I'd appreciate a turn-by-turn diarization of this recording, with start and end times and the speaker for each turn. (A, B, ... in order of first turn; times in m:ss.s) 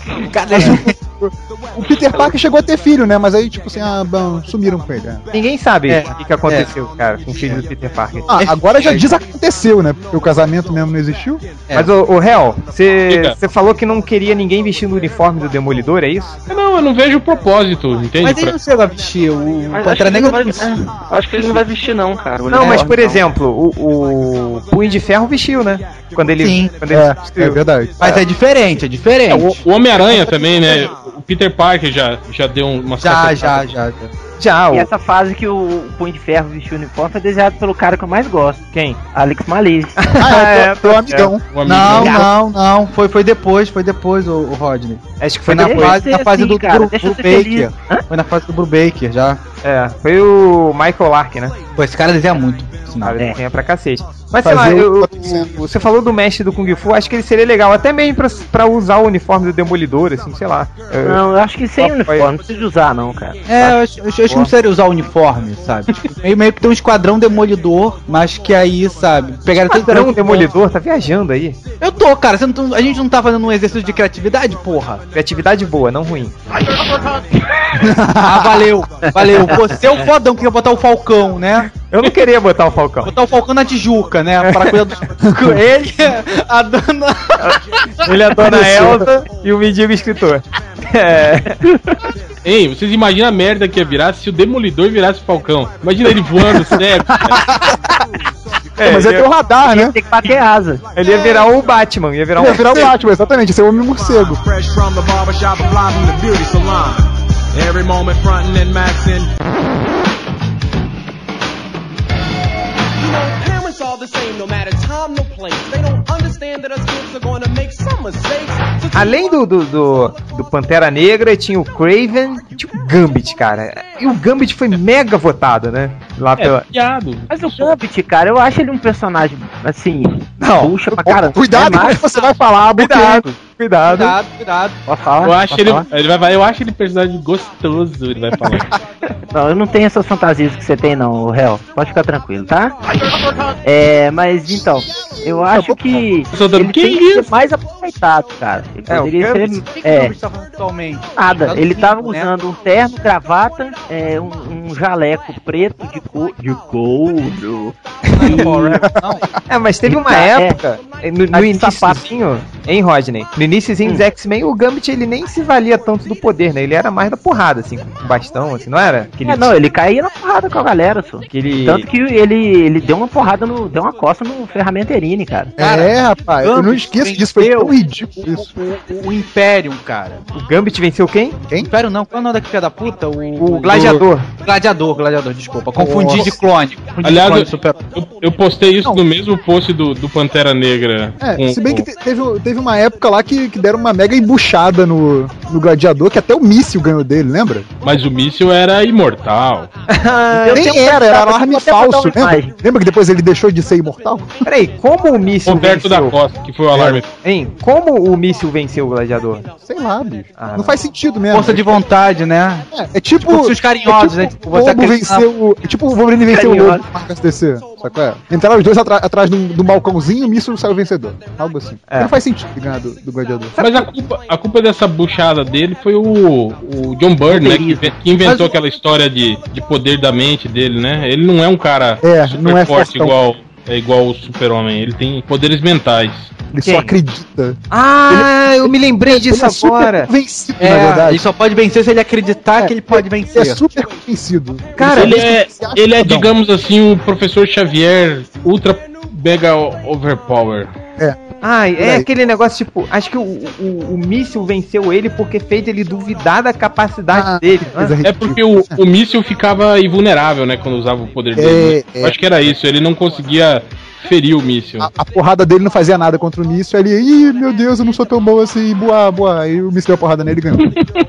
0:00.2-0:01.0 A
0:00.5-0:05.2 B
0:05.3-0:08.3 C
0:05.9-0:06.7 A
0:08.3-0:11.4 B
0:08.4-0:09.1 A
0:11.7-0:16.4 C
0:13.1-0:13.4 D
0:16.5-0:18.6 D
0:18.2-0:20.8 A
0:19.7-0:23.2 E
0:22.5-0:27.6 C
0:26.3-0:26.7 A
0:26.9-0:28.2 B
0:28.0-0:29.6 A
0:29.3-0:33.7 D
0:33.0-0:34.1 A
0:34.4-0:34.9 C
0:34.7-0:40.1 F
0:38.7-0:39.0 C
0:40.0-0:41.3 C
0:40.2-0:41.4 B
0:41.5-0:42.3 D
0:41.6-0:49.4 A
0:42.0-0:42.3 F
0:45.2-0:46.0 C
0:45.5-0:48.0 F
0:49.6-0:51.6 C
0:51.8-0:53.2 A
0:53.0-1:01.2 C
0:54.4-0:55.6 B
1:01.0-1:04.5 F
1:01.8-1:02.3 C
1:03.5-1:10.5 A
1:09.7-1:11.6 C
1:11.8-1:15.0 A
1:15.1-1:16.4 C
1:17.8-1:18.7 B
1:18.1-1:21.7 A
1:21.9-1:23.1 C
1:23.0-1:27.6 A
1:24.4-1:24.8 C
1:27.5-1:31.7 C
1:28.5-1:29.0 B
1:32.4-1:37.5 D
1:37.2-1:38.0 B
1:38.8-1:39.3 C
1:38.8-1:40.0 B
1:39.7-1:40.8 F
1:41.0-1:42.9 C
1:42.4-1:44.4 B
1:43.9-1:49.3 G
1:53.0-1:59.4 G
1:58.9-2:06.7 C
2:06.4-2:07.7 D
2:07.3-2:12.3 F
2:10.4-2:10.8 C
2:11.0-2:13.2 B
2:12.8-2:14.2 C
2:13.9-2:14.8 A
2:14.9-2:15.8 F
2:15.2-2:18.7 D
2:19.3-2:22.8 F
2:23.6-2:30.1 F
2:25.2-2:26.0 B
2:26.3-2:27.3 D
2:28.9-2:29.6 C
2:29.7-2:32.3 A
2:31.2-2:38.6 F
2:38.1-2:38.8 C
2:38.2-2:39.3 A
2:39.5-2:49.5 C
2:39.9-2:40.6 F
2:41.3-2:42.1 F
2:49.2-2:55.5 F
2:51.3-2:51.9 C
2:55.6-2:58.5 B
2:55.6-2:57.7 A
2:58.3-3:00.2 A
3:00.3-3:01.4 C
3:01.6-3:07.8 A
3:03.4-3:04.3 C
3:05.8-3:06.4 B
3:07.0-3:11.8 D
3:11.2-3:17.7 B
3:17.8-3:19.7 D
3:19.9-3:20.8 C
3:20.3-3:22.5 F
3:20.5-3:24.4 B
3:24.4-3:26.2 C
3:25.5-3:27.1 D
3:26.7-3:29.5 C
3:29.6-3:31.8 B
3:30.4-3:30.8 C
3:31.3-3:32.7 A
3:32.7-3:43.6 B
3:33.2-3:35.3 A
3:36.3-3:36.8 F
3:41.9-3:42.2 C
3:43.5-3:43.9 C
3:43.6-3:56.3 D
3:47.3-3:47.9 F
3:52.0-3:53.2 B
3:56.5-4:01.2 B
3:56.6-3:57.0 C
3:57.7-4:00.1 C
4:00.6-4:03.6 A
4:02.6-4:06.3 B
4:04.8-4:05.2 C
4:04.8-4:10.7 D
4:11.4-4:18.0 C
4:11.8-4:12.1 B
4:17.1-4:18.8 B
4:18.0-4:24.9 D
4:21.4-4:22.2 B
4:24.8-4:30.7 B